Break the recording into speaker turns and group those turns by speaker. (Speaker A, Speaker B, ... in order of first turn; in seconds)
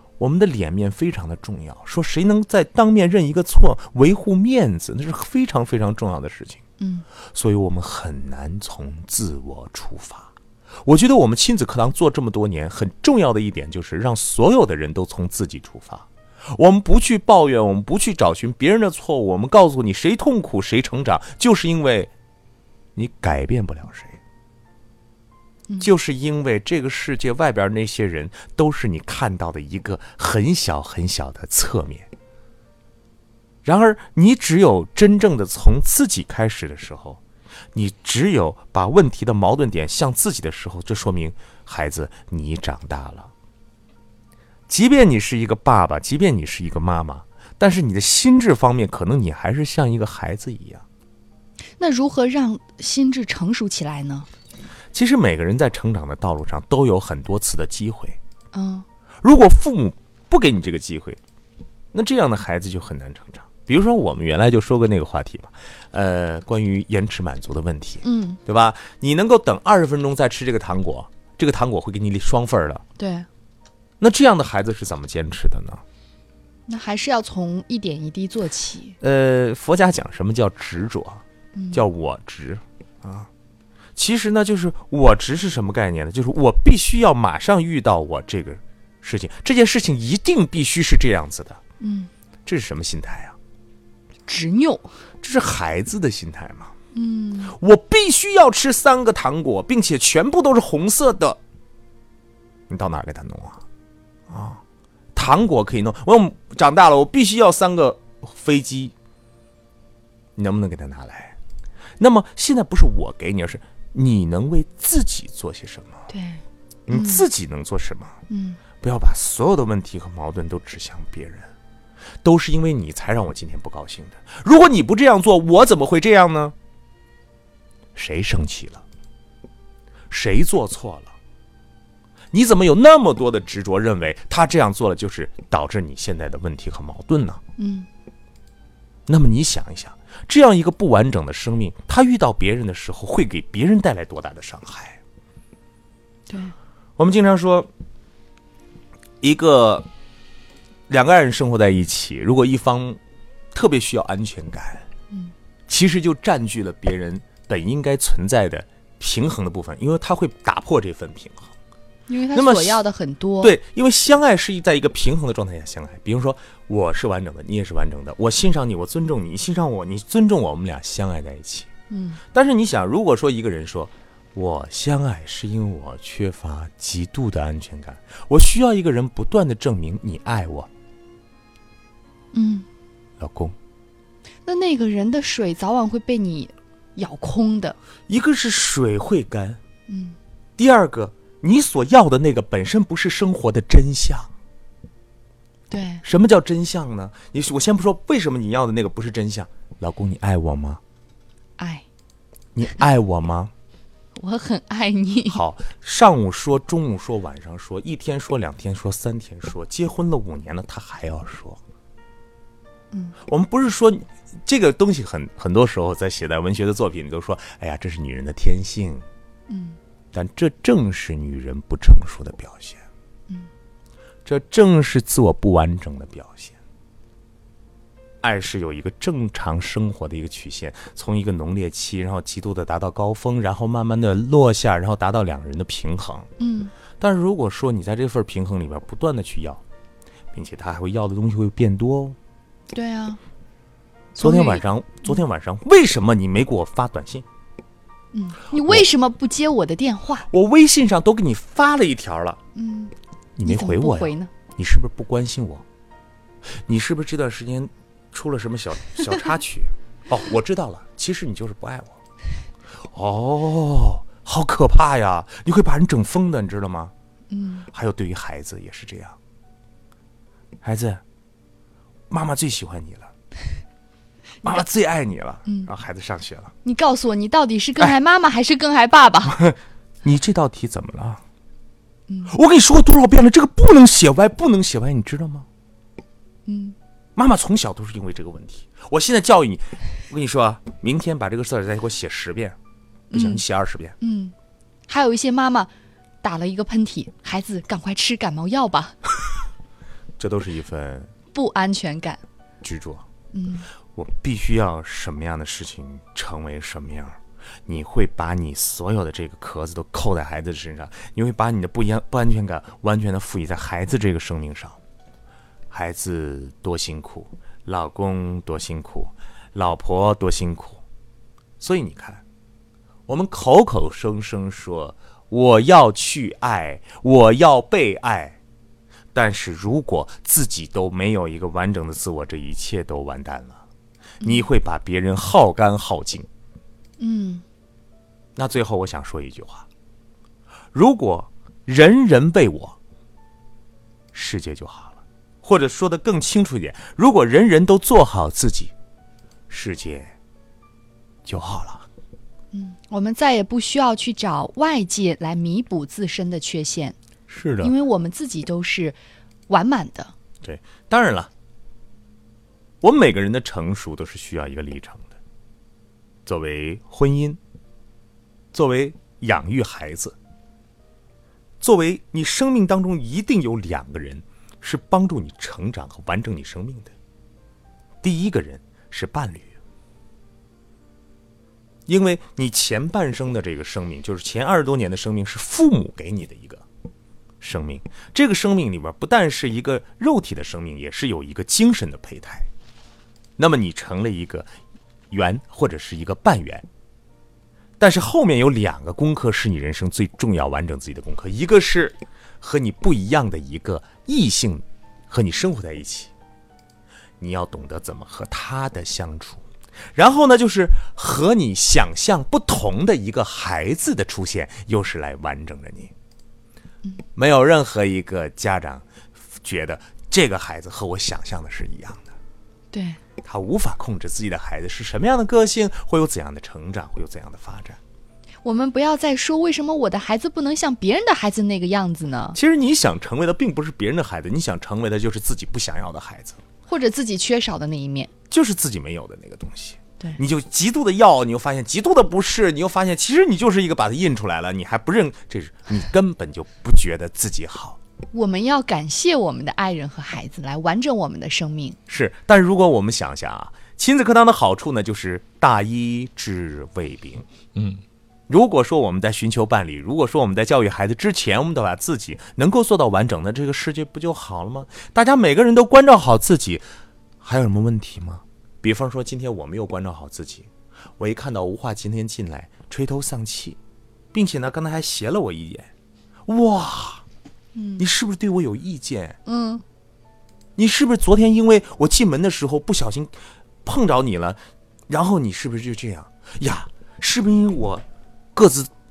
Speaker A: 0.2-6.6, 7.3-22.1, 22.9-24.2, 25.8-32.1, 33.6-37.2, 37.7-43.3, 44.7-50.8, 54.9-58.2, 59.2-61.2, 61.9-72.8, 74.0-75.8, 79.0-83.3, 84.0-91.6, 92.5-93.3, 95.2-96.7, 97.5-101.4, 102.7-103.6, 104.3-104.6, 105.1-108.9, 110.3-111.3, 112.0-116.1, 116.9-118.2, 118.8-121.5, 122.2-126.5, 128.0-128.8, 130.1-131.2, 132.3-137.4, 139.1-145.0, 147.0-147.7, 149.2-149.9, 150.9-153.0, 153.5-154.8, 155.7-161.5, 162.3-162.8, 163.4-171.7, 172.3-180.7, 183.2-183.6, 188.1-189.6, 190.6-194.3, 196.0-200.8, 202.5-203.5, 205.3-211.6, 213.2-219.1, 220.1-222.8, 224.2-226.6, 228.2-236.3, 236.9-239.6, 240.3-242.2, 244.1-247.2, 248.6-248.8, 250.3-252.4, 253.4-255.6, 256.4-262.0, 262.9-266.9, 267.7-269.2, 270.6-271.0, 272.1-273.1, 274.4-276.5, 279.2-281.2, 282.3-285.5, 287.1-292.6, 293.1-293.9, 300.2-301.1, 302.6-303.1, 303.9-314.8, 315.7-320.8, 321.6-322.2, 323.1-328.4, 329.1-333.6, 334.2-336.3, 338.4-339.6, 340.7-342.8, 344.1-348.7, 349.5-350.1, 351.2-351.9, 357.3-357.7, 360.4-361.3, 362.8-365.1, 366.2-367.4, 368.5-370.2, 371.6-376.9, 378.0-379.6, 381.9-386.6, 387.4-392.5, 393.4-394.5, 395.1-396.7, 397.8-406.1, 407.2-415.9, 417.1-422.1, 423.2-427.8, 432.3-436.4, 438.3-447.8, 451.9-457.3, 458.3-466.6, 467.2-473.6, 474.1-475.7, 476.3-477.0, 477.8-479.2, 480.6-488.7
Speaker B: 6.8-7.0, 51.8-54.3, 58.5-58.8, 68.0-68.4, 73.0-73.3, 76.7-79.0, 81.5-81.8, 91.8-92.1, 94.3-94.9, 96.9-97.5, 116.1-117.2, 118.3-118.6, 137.6-137.9, 146.3-146.5, 162.1-163.5, 171.9-172.2, 182.3-182.7, 184.4-187.8, 189.9-190.2, 195.7-196.0, 201.6-201.8, 204.2-205.4, 219.5-219.8, 236.4-236.7, 242.7-243.2, 244.2-245.1, 248.1-250.3, 252.6-252.9, 253.4-254.3, 267.3-267.6, 276.6-279.4, 282.1-282.3, 286.5-286.7, 293.1-293.4, 294.0-294.3, 294.9-295.7, 296.2-299.0, 301.3-302.2, 303.3-303.7, 337.0-337.4, 352.5-356.9, 357.6-359.0, 359.5-360.1, 422.7-423.0, 428.4-432.4, 436.7-438.1, 448.1-451.8, 477.5-477.9, 479.2-479.6